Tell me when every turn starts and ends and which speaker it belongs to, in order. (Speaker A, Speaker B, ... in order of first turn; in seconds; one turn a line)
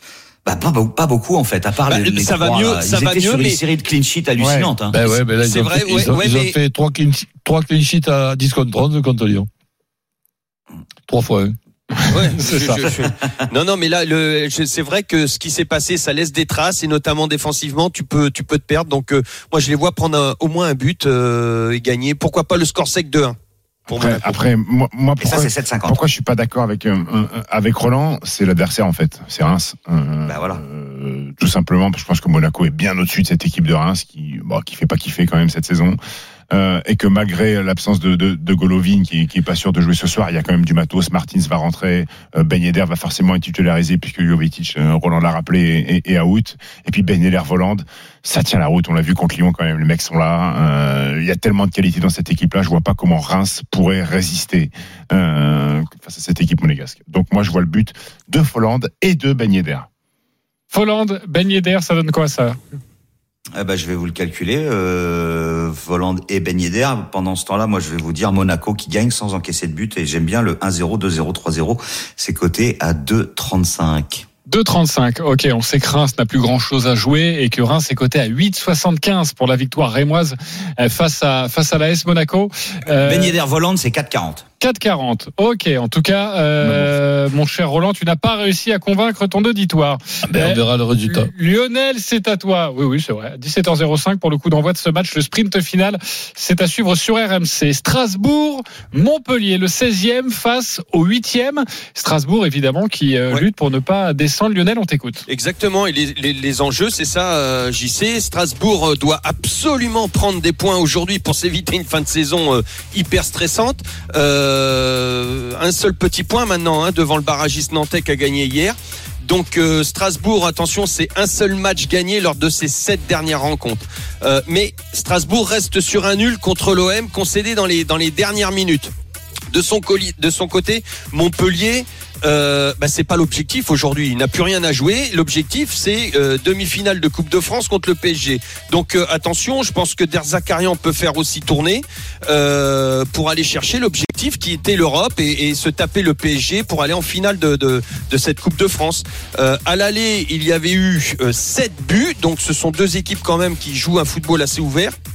Speaker A: 0.5-5.1
Speaker B: 1.9-3.6
Speaker C: 4.4-4.7
Speaker D: 4.9-9.5
Speaker B: 5.3-6.6
Speaker D: 11.1-11.6
Speaker E: 12.0-12.8
Speaker B: 12.1-23.4
Speaker C: 23.9-36.0
Speaker B: 23.9-24.4
Speaker A: 25.2-26.0
Speaker A: 30.3-30.6
Speaker C: 36.5-59.9
Speaker E: 60.7-62.6
Speaker A: 63.6-74.2
Speaker E: 74.5-83.4
Speaker A: 83.0-84.5
Speaker E: 84.6-105.2
Speaker D: 90.3-91.3
Speaker B: 105.3-128.9
Speaker B: 129.5-154.9